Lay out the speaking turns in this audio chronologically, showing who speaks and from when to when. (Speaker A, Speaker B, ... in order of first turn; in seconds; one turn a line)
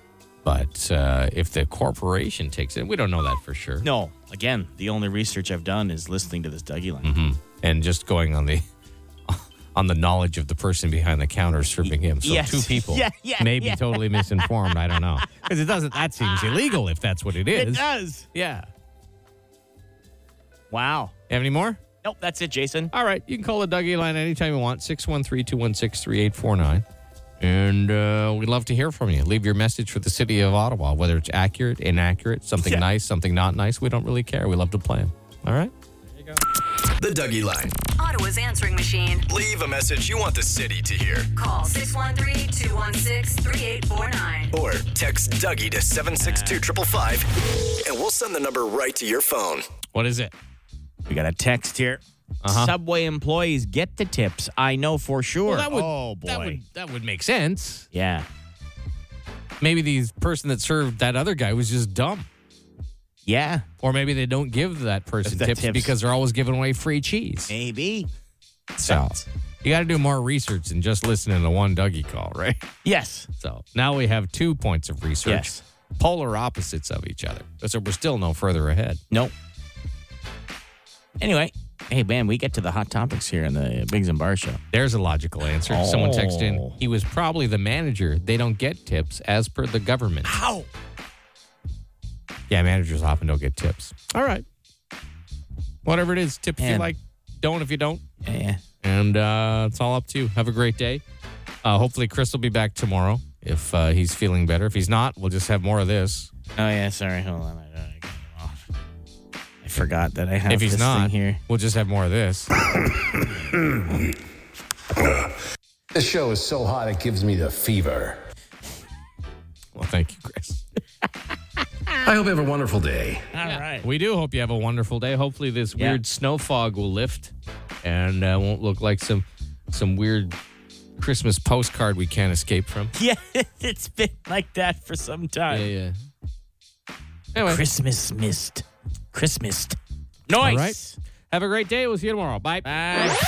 Speaker A: 0.4-3.9
Speaker B: 3.8-7.1
Speaker A: 7.0-8.6
Speaker A: 9.3-18.6
Speaker B: 11.8-14.7
Speaker B: 16.2-16.7
Speaker B: 17.5-18.3
Speaker B: 20.7-21.1
Speaker A: 21.3-21.8
Speaker B: 22.0-22.9
Speaker A: 22.9-26.8
Speaker A: 27.4-35.7
Speaker B: 32.6-32.8
Speaker C: 37.0-37.7
Speaker D: 38.0-39.2
Speaker C: 39.3-41.3
Speaker D: 41.4-44.5
Speaker C: 44.5-47.3
Speaker B: 46.2-46.6
Speaker C: 47.8-49.6
Speaker A: 49.9-50.3
Speaker B: 51.1-56.6
Speaker A: 52.4-52.7
Speaker A: 55.5-57.9
Speaker B: 57.9-58.2
Speaker A: 59.6-62.2
Speaker B: 63.2-63.6
Speaker A: 63.8-67.5
Speaker B: 65.2-65.9
Speaker B: 67.5-68.1
Speaker B: 68.8-69.3
Speaker A: 68.8-72.7
Speaker B: 72.8-73.3
Speaker A: 73.4-79.0
Speaker B: 75.2-75.6
Speaker B: 81.2-84.6
Speaker A: 84.7-90.4
Speaker B: 85.5-86.8
Speaker B: 90.2-90.7
Speaker A: 92.5-94.4
Speaker A: 95.8-98.0
Speaker B: 96.6-96.9
Speaker B: 98.2-98.6
Speaker A: 98.8-101.0
Speaker A: 101.6-106.3
Speaker B: 106.5-108.6
Speaker B: 109.6-111.4
Speaker A: 110.5-112.5
Speaker E: 115.9-118.2
Speaker A: 119.7-120.6
Speaker E: 122.0-123.2
Speaker B: 123.3-123.9
Speaker A: 123.4-127.3
Speaker A: 127.8-130.3
Speaker A: 131.0-132.9
Speaker B: 132.9-135.7
Speaker A: 135.5-135.9
Speaker A: 137.3-137.6
Speaker B: 137.4-139.8
Speaker B: 140.3-141.0
Speaker A: 140.4-140.8
Speaker A: 141.3-142.7
Speaker B: 142.6-143.2